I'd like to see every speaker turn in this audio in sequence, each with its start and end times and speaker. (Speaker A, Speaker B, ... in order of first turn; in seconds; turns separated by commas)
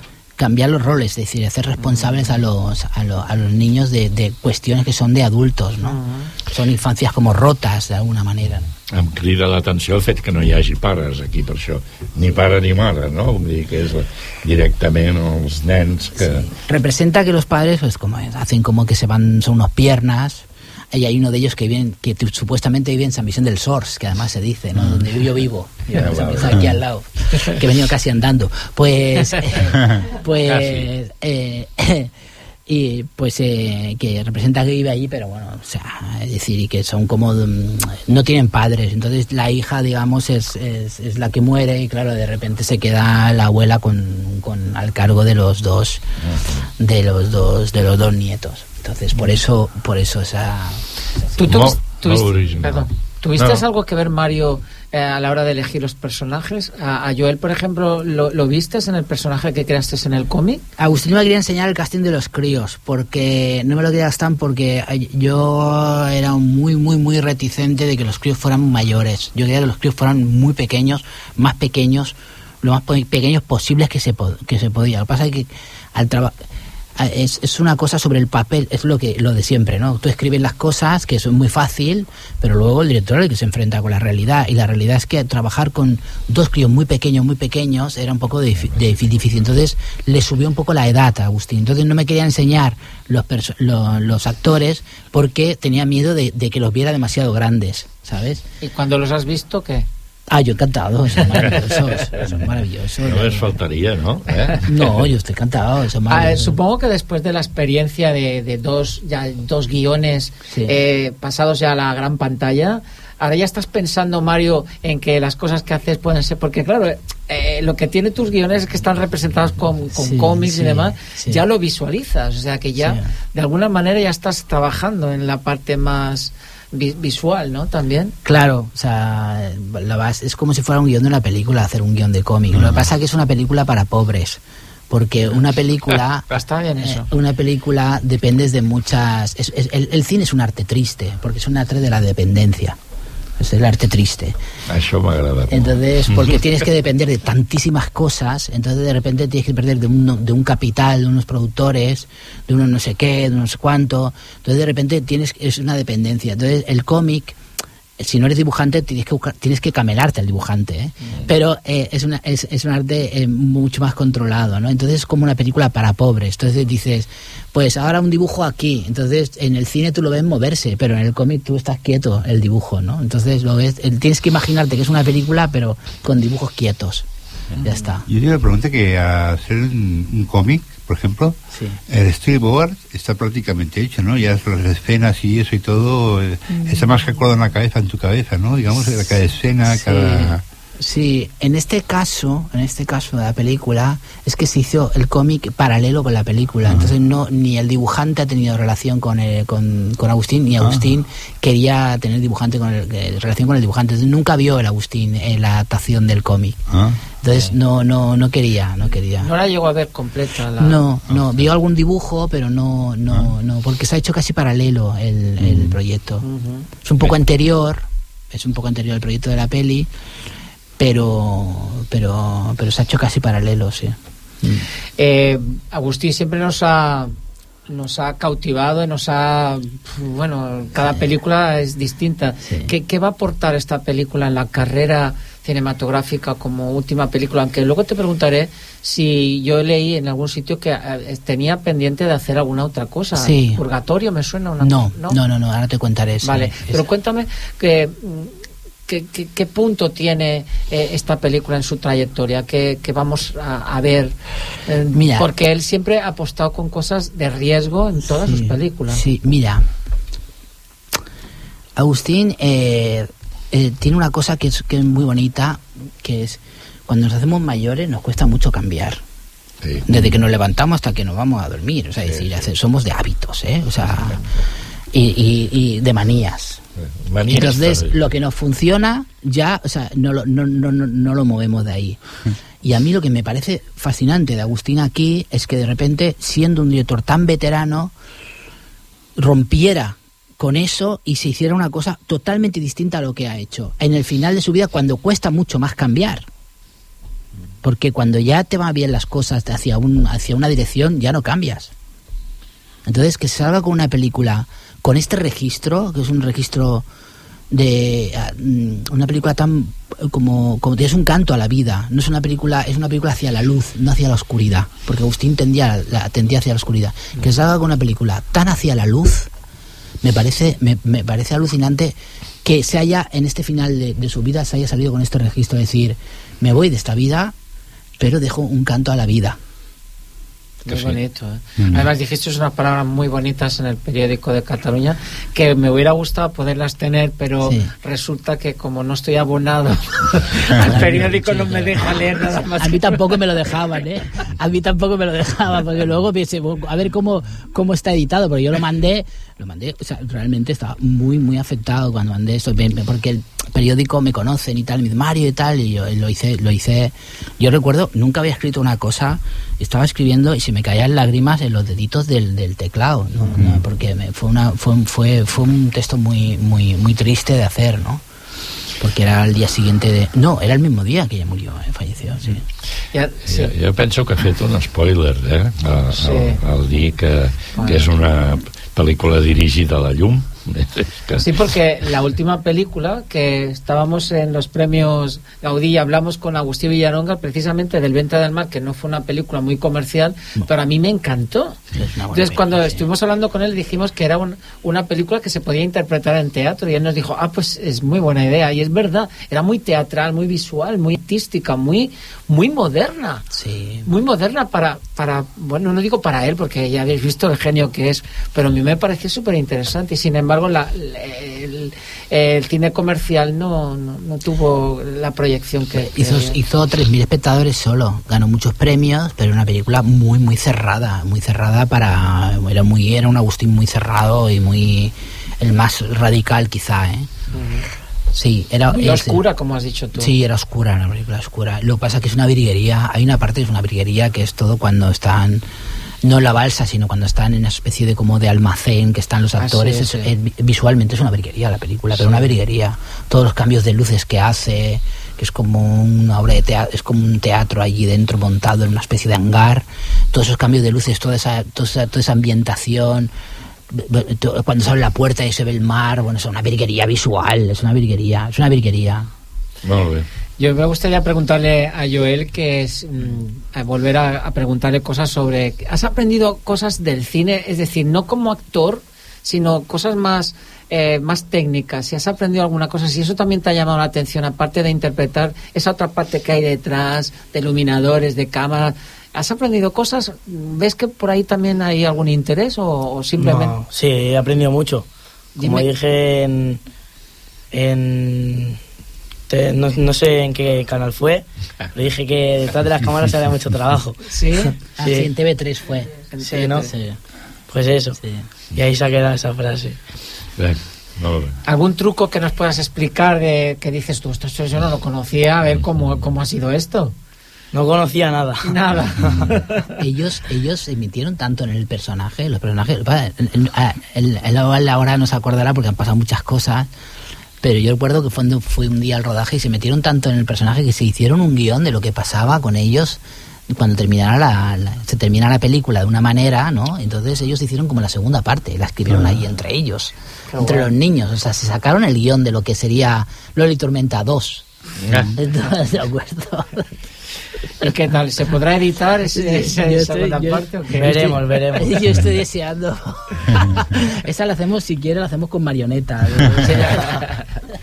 Speaker A: 0.3-8.7, Speaker B: 1.8-2.3, Speaker B: 5.8-6.3, Speaker C: 8.9-16.5, Speaker A: 16.3-32.1, Speaker C: 25.9-26.6, Speaker C: 30.5-30.9, Speaker A: 32.7-46.0, Speaker A: 46.8-50.8, Speaker B: 51.3-60.6, Speaker C: 51.4-53.6, Speaker A: 60.8-76.4, Speaker A: 77.0-98.4, Speaker B: 98.6-99.9, Speaker A: 100.3-103.5, Speaker C: 103.0-104.7, Speaker A: 104.6-106.6, Speaker B: 106.1-128.2, Speaker A: 110.5-110.8, Speaker A: 120.0-121.4, Speaker A: 122.8-123.1, Speaker A: 128.2-136.2, Speaker B: 136.3-137.1, Speaker A: 136.8-142.8, Speaker A: 143.4-144.4, Speaker C: 144.7-146.3, Speaker A: 145.5-157.4, Speaker A: 158.0-177.1, Speaker A: 177.6-178.1, Speaker D: 178.1-181.4, Speaker A: 181.5-181.8, Speaker D: 181.9-190.4, Speaker A: 189.7-206.6, Speaker D: 206.7-207.0, Speaker A: 207.2-209.3, Speaker B: 209.2-210.8, Speaker A: 210.6-216.2, Speaker D: 211.1-211.4, Speaker D: 215.4-215.8, Speaker B: 216.2-216.7, Speaker A: 216.8-219.9, Speaker A: 220.8-224.6, Speaker B: 225.0-227.1, Speaker B: 227.7-245.2, Speaker A: 232.4-232.7, Speaker A: 243.2-243.6, Speaker A: 244.6-246.8, Speaker B: 246.2-248.3, Speaker B: 248.9-259.0, Speaker A: 254.9-255.3, Speaker A: 258.2-259.6, Speaker A: 261.8-269.0, Speaker C: 269.6-269.9, Speaker A: 269.9-274.2, Speaker A: 274.9-276.6, Speaker C: 276.8-278.0, Speaker A: 277.2-282.0, Speaker A: 282.6-287.9, Speaker A: 289.1-296.3, Speaker A: 297.6-301.7, Speaker A: 302.9-306.9, Speaker A: 307.5-319.3, Speaker A: 320.0-327.3, Speaker A: 328.0-329.4, Speaker B: 330.6-343.0, Speaker A: 337.4-337.7, Speaker A: 340.6-368.0, Speaker A: 368.8-372.4, Speaker B: 372.9-373.5, Speaker C: 373.3-381.2, Speaker B: 376.0-376.4, Speaker B: 377.6-377.9, Speaker B: 381.2-391.6, Speaker A: 391.8-392.9, Speaker B: 392.1-403.2, Speaker A: 403.3-403.9, Speaker B: 403.9-416.4, Speaker A: 415.7-427.1, Speaker B: 427.3-427.6, Speaker A: 428.1-429.2, Speaker B: 428.7-430.1, Speaker A: 429.9-435.4, Speaker A: 436.0-453.1, Speaker B: 439.4-440.1, Speaker B: 442.0-442.2, Speaker A: 453.7-459.1, Speaker C: 459.6-460.1, Speaker B: 460.4-483.6, Speaker E: 483.2-486.6, Speaker B: 485.4-485.7, Speaker E: 487.5-488.6, Speaker E: 489.3-495.1, Speaker B: 494.1-494.5, Speaker A: 494.8-495.9, Speaker B: 496.1-496.7, Speaker E: 496.2-496.7, Speaker A: 496.7-497.0, Speaker E: 497.5-498.0, Speaker A: 498.0-498.2, Speaker E: 498.5-499.8, Speaker C: 500.4-501.4, Speaker B: 501.4-506.9, Speaker E: 507.5-509.3, Speaker B: 508.4-509.7, Speaker A: 509.8-516.7, Speaker A: 517.4-534.5, Speaker B: 530.3-530.7, Speaker A: 535.1-536.7, Speaker B: 537.6-541.1, Speaker A: 539.1-547.0, Speaker E: 540.8-541.8, Speaker B: 546.5-547.0